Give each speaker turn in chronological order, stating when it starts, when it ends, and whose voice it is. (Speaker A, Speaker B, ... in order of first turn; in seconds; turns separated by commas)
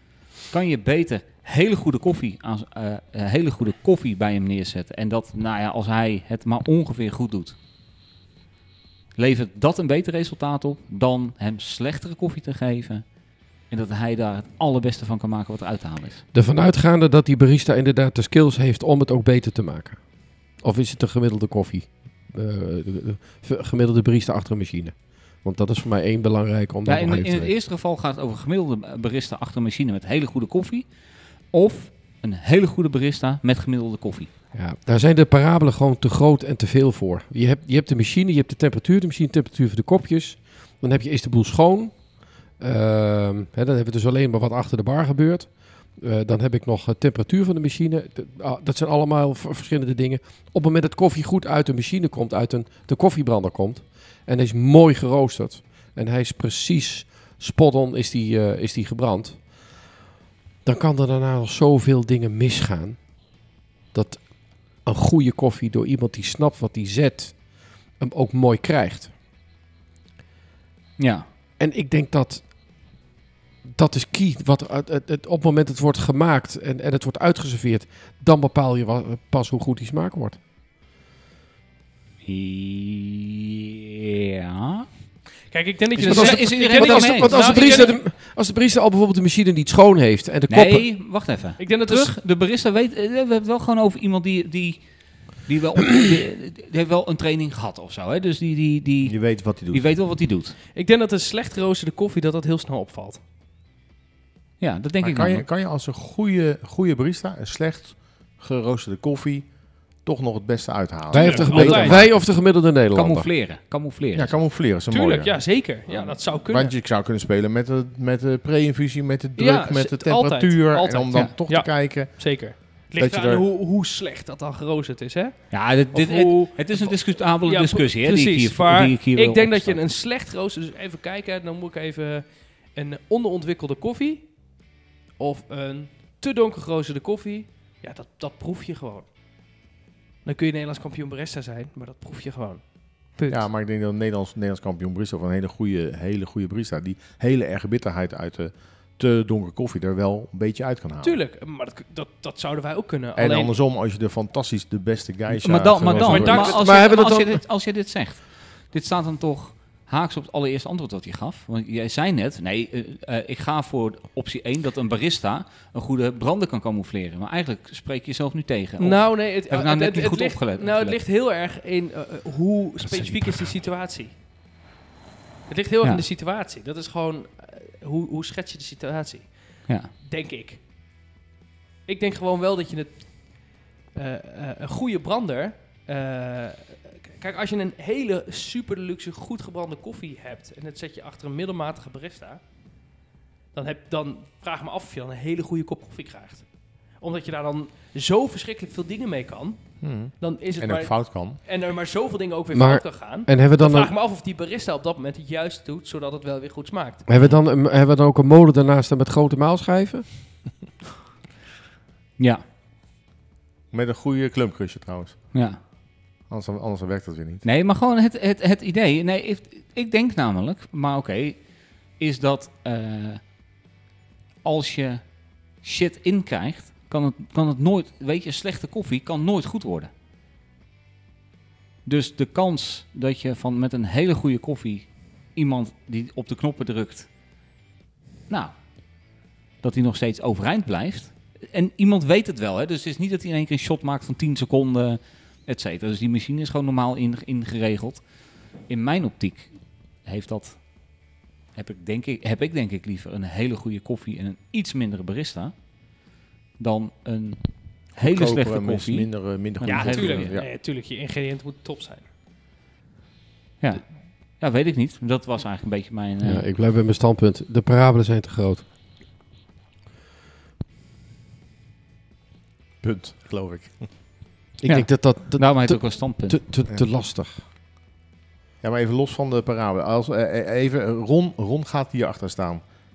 Speaker A: 0.5-7.5, Speaker A: 9.2-13.1, Speaker A: 13.7-16.2, Speaker B: 16.3-27.5, Speaker A: 26.9-30.9, Speaker A: 31.5-34.3, Speaker B: 34.5-59.5, Speaker B: 60.6-63.4, Speaker B: 63.9-69.1, Speaker A: 71.0-71.2, Speaker B: 71.6-72.5, Speaker B: 73.7-80.4, Speaker A: 82.2-84.8, Speaker C: 85.5-88.0, Speaker A: 85.9-87.9, Speaker B: 86.0-90.8, Speaker A: 90.5-94.8, Speaker C: 91.6-92.2, Speaker A: 95.4-100.6, Speaker D: 99.1-99.8, Speaker C: 100.7-103.2, Speaker A: 104.6-105.4, Speaker D: 105.0-112.2, Speaker C: 111.1-112.0, Speaker B: 111.1-113.3, Speaker A: 112.9-114.3, Speaker D: 114.1-115.4, Speaker C: 114.9-116.7, Speaker D: 116.4-123.4, Speaker C: 119.4-134.5, Speaker A: 125.5-129.8, Speaker C: 135.2-139.1, Speaker C: 140.2-143.4, Speaker D: 143.3-151.2, Speaker C: 151.0-153.5, Speaker D: 153.2-156.5, Speaker A: 155.3-171.0, Speaker B: 156.0-157.4, Speaker C: 156.0-156.6, Speaker C: 168.8-174.1, Speaker A: 172.9-173.2, Speaker C: 175.5-180.6, Speaker C: 181.8-192.4, Speaker C: 193.5-196.4, Speaker C: 197.0-207.0, Speaker D: 199.8-201.4, Speaker B: 202.5-203.9, Speaker B: 207.1-210.2, Speaker D: 213.7-215.3, Speaker A: 215.3-215.6, Speaker D: 216.3-217.4, Speaker A: 217.4-223.2, Speaker A: 224.4-225.1, Speaker A: 225.6-229.9, Speaker A: 231.8-237.1, Speaker A: 238.3-238.5, Speaker A: 239.6-248.0, Speaker A: 248.7-250.6, Speaker A: 251.5-255.5, Speaker A: 256.6-260.3, Speaker D: 257.9-260.5, Speaker C: 259.6-262.0, Speaker A: 263.6-266.5, Speaker B: 266.2-268.6, Speaker D: 272.8-273.9, Speaker B: 274.6-277.4, Speaker A: 274.6-276.4, Speaker D: 278.6-282.6